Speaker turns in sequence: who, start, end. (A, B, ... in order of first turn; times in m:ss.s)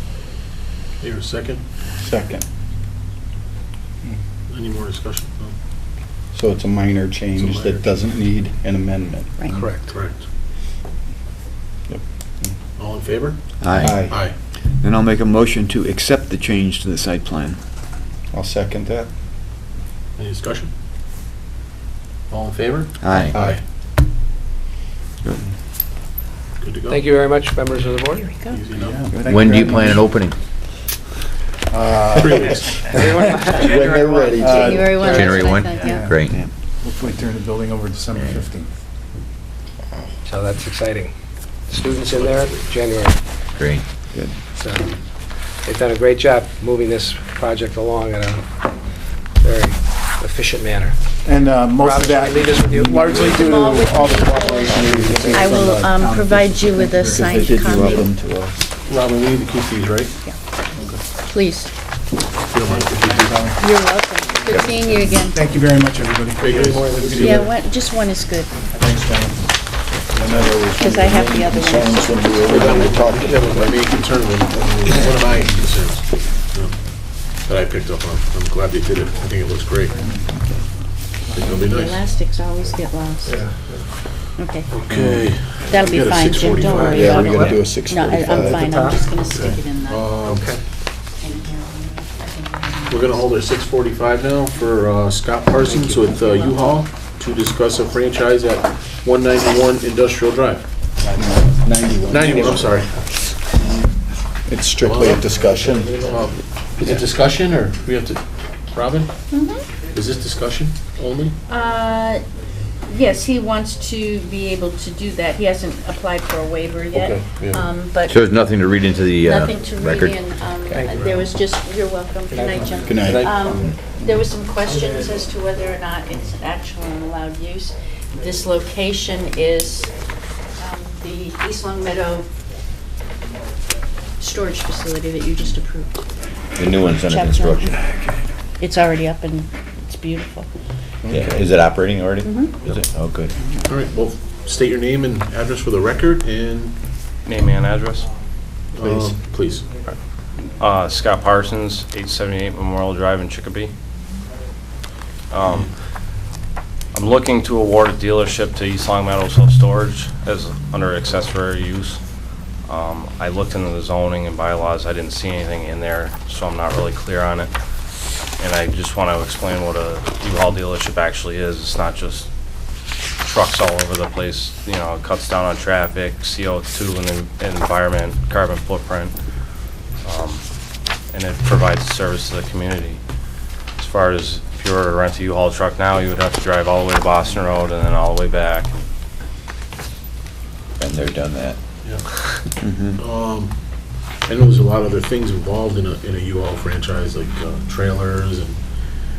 0:01.0-0:01.6 A
0:02.0-0:02.4 B
0:04.5-0:05.5 A
0:06.3-0:09.4 B
0:07.4-0:07.9 A
0:09.4-0:09.7 C
0:09.5-0:09.9 D
0:09.9-0:10.2 A
0:11.9-0:12.5 B
0:12.8-0:14.4 A
0:13.6-0:17.6 E
0:13.7-0:14.2 B
0:18.3-0:19.1 B
0:20.2-0:20.7 A
0:22.3-0:23.6 A
0:23.0-0:23.3 E
0:23.2-0:23.6 B
0:26.6-0:27.0 A
0:26.9-0:28.4 D
0:28.2-0:28.6 C
0:28.4-0:29.0 A
0:28.8-0:30.0 F
0:29.1-0:29.5 E
0:29.2-0:30.4 G
0:31.7-0:32.5 F
0:32.1-0:33.0 A
0:32.9-0:34.4 D
0:33.5-0:35.2 B
0:34.4-0:35.2 F
0:34.4-0:36.1 C
0:34.4-0:36.3 G
0:35.2-0:35.5 D
0:36.2-0:36.5 E
0:36.8-0:38.7 F
0:40.2-0:41.1 D
0:41.7-0:43.2 D
0:42.2-0:42.5 A
0:43.6-0:43.8 G
0:44.1-0:44.4 E
0:44.5-0:45.0 D
0:45.6-0:48.4 D
0:49.4-0:51.0 D
0:51.2-0:57.2 F
0:51.7-0:53.1 D
0:53.0-0:58.0 C
0:57.0-0:58.7 B
0:57.2-0:58.1 E
0:58.8-1:00.2 A
1:01.2-1:01.7 C
1:02.5-1:03.5 A
1:02.9-1:03.6 F
1:03.5-1:05.4 C
1:05.3-1:07.2 F
1:06.4-1:07.4 A
1:06.6-1:07.5 D
1:07.2-1:08.5 C
1:08.8-1:09.4 F
1:10.1-1:13.6 B
1:10.8-1:12.4 C
1:12.4-1:16.8 A
1:17.4-1:20.0 A
1:21.3-1:22.0 A
1:21.6-1:23.4 C
1:24.4-1:24.7 C
1:24.7-1:27.5 A
1:24.9-1:25.3 B
1:25.6-1:30.1 C
1:26.8-1:29.2 D
1:26.9-1:28.7 B
1:29.3-1:30.5 A
1:30.2-1:30.6 D
1:31.2-1:33.2 C
1:32.9-1:40.7 A
1:35.6-1:36.1 D
1:35.7-1:36.6 C
1:41.1-1:42.8 B
1:42.1-1:43.0 A
1:44.4-1:46.0 B
1:44.8-1:45.3 A
1:45.4-1:46.1 D
1:45.9-1:49.1 A
1:49.3-1:49.6 C
1:49.9-1:51.4 A
1:51.5-1:52.2 C
1:52.8-1:58.3 C
1:56.9-1:57.7 A
1:58.1-2:00.1 G
1:59.2-2:09.9 C
2:00.7-2:01.0 D
2:00.9-2:01.2 A
2:02.3-2:03.1 D
2:02.8-2:04.2 B
2:03.0-2:03.4 A
2:10.6-2:12.3 C
2:14.2-2:16.0 C
2:16.6-2:17.9 G
2:16.9-2:17.9 C
2:18.6-2:20.5 C
2:21.0-2:21.3 B
2:21.1-2:23.3 G
2:22.2-2:22.6 C
2:23.6-2:26.8 A
2:27.2-2:28.1 H
2:28.7-2:29.7 A
2:28.8-2:29.2 B
2:30.6-2:33.7 H
2:35.3-2:35.7 H
2:35.4-2:35.7 A
2:36.9-2:42.0 H
2:42.7-2:47.5 H
2:48.4-2:52.3 H
2:53.2-2:59.1 H
3:00.0-3:00.4 H
3:01.1-3:03.0 H
3:03.8-3:08.7 H
3:10.8-3:11.6 G
3:12.6-3:13.0 E
3:13.0-3:13.5 A
3:14.2-3:18.6 A